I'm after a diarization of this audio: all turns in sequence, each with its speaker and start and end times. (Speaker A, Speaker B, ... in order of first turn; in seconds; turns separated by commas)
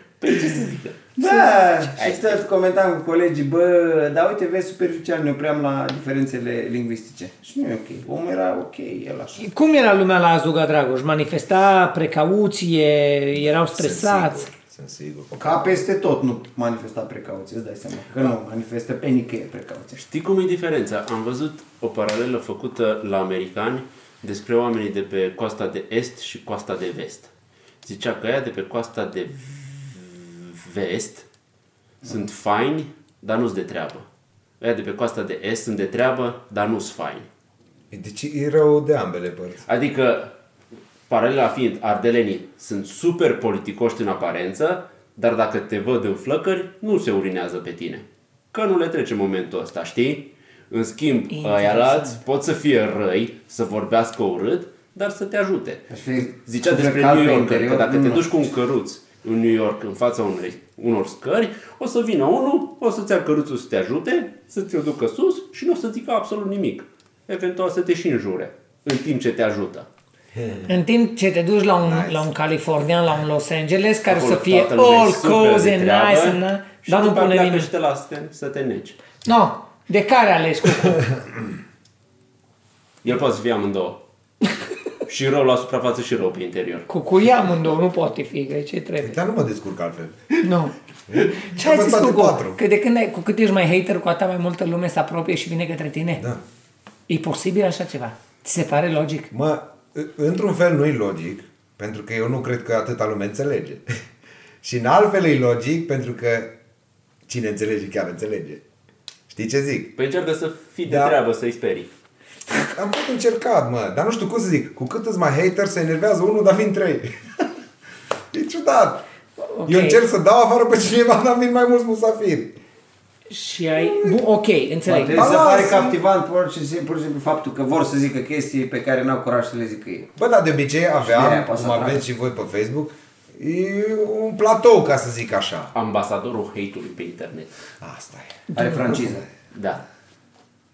Speaker A: 0.2-1.1, Speaker B: 1.2-9.4, Speaker C: 1.2-1.5, Speaker A: 1.9-2.4, Speaker C: 9.4-14.5, Speaker D: 13.3-15.8, Speaker B: 15.3-20.0, Speaker A: 19.9-27.3, Speaker A: 27.8-31.2, Speaker A: 32.0-34.0, Speaker A: 34.6-37.3, Speaker D: 37.9-39.6, Speaker A: 39.7-40.3, Speaker A: 41.1-55.9, Speaker C: 51.3-52.2, Speaker B: 55.9-58.3, Speaker A: 56.4-69.9, Speaker D: 70.3-70.7, Speaker C: 70.7-77.7, Speaker D: 71.8-72.3, Speaker A: 74.0-79.0, Speaker C: 79.2-81.0, Speaker A: 83.0-84.0, Speaker A: 85.0-86.9, Speaker C: 86.9-89.2, Speaker D: 89.0-90.2, Speaker C: 90.4-90.7, Speaker D: 91.1-92.6, Speaker C: 91.5-96.2, Speaker C: 97.1-99.3, Speaker D: 99.3-103.8, Speaker D: 104.6-106.5, Speaker D: 107.3-108.6, Speaker D: 109.3-109.9, Speaker A: 110.0-111.9, Speaker D: 110.8-111.2, Speaker D: 112.5-117.1, Speaker D: 118.3-119.0, Speaker C: 119.5-120.0, Speaker D: 119.7-122.6, Speaker C: 123.3-125.2, Speaker B: 124.8-130.1, Speaker D: 125.1-126.0, Speaker D: 130.2-135.7, Speaker B: 131.0-132.0, Speaker A: 135.7-137.5, Speaker D: 137.8-139.0, Speaker C: 138.5-139.1, Speaker B: 138.5-139.2, Speaker A: 139.5-139.8